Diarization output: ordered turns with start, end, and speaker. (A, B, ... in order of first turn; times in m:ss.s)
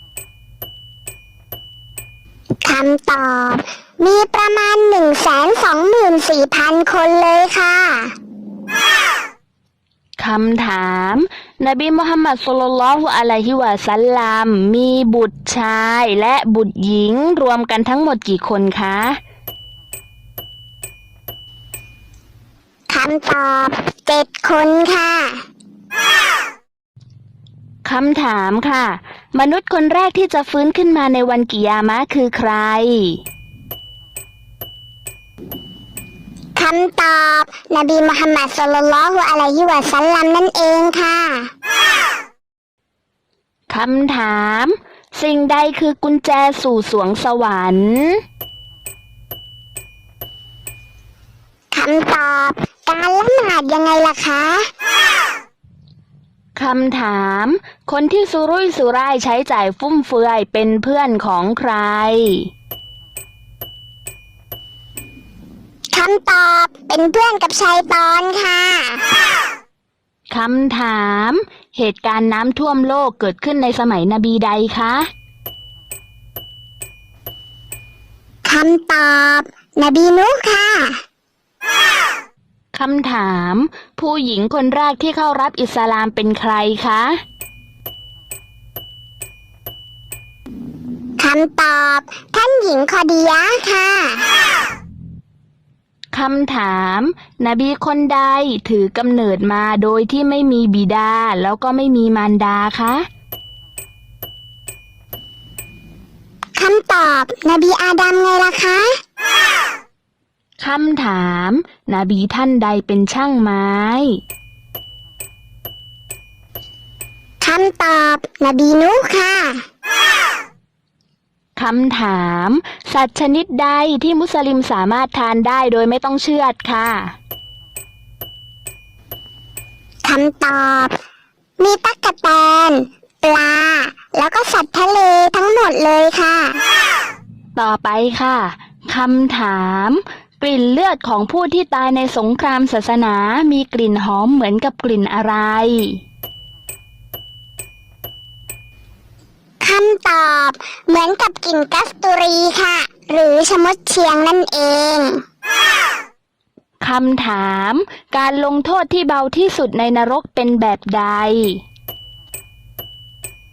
0:02.6-0:08.1 A
0:10.2-0:19.2 B
0:22.9-0:25.4 A
0:27.8-0:33.2 B
0:36.6-0:41.5 A
0:43.7-0:48.2 B
0:51.7-0:54.7 A
0:56.6-1:02.5 B
1:05.9-1:09.1 A
1:10.3-1:15.1 B
1:18.4-1:21.0 A
1:22.7-1:27.2 B
1:31.2-1:34.3 A
1:36.1-1:43.0 B
1:46.6-1:48.9 A
1:50.6-1:54.2 B
1:57.4-1:59.6 A
2:01.6-2:07.1 B
2:10.0-2:10.9 A
2:11.6-2:16.6 A
2:17.6-2:26.0 B
2:29.6-2:35.2 A
2:36.8-2:41.6 B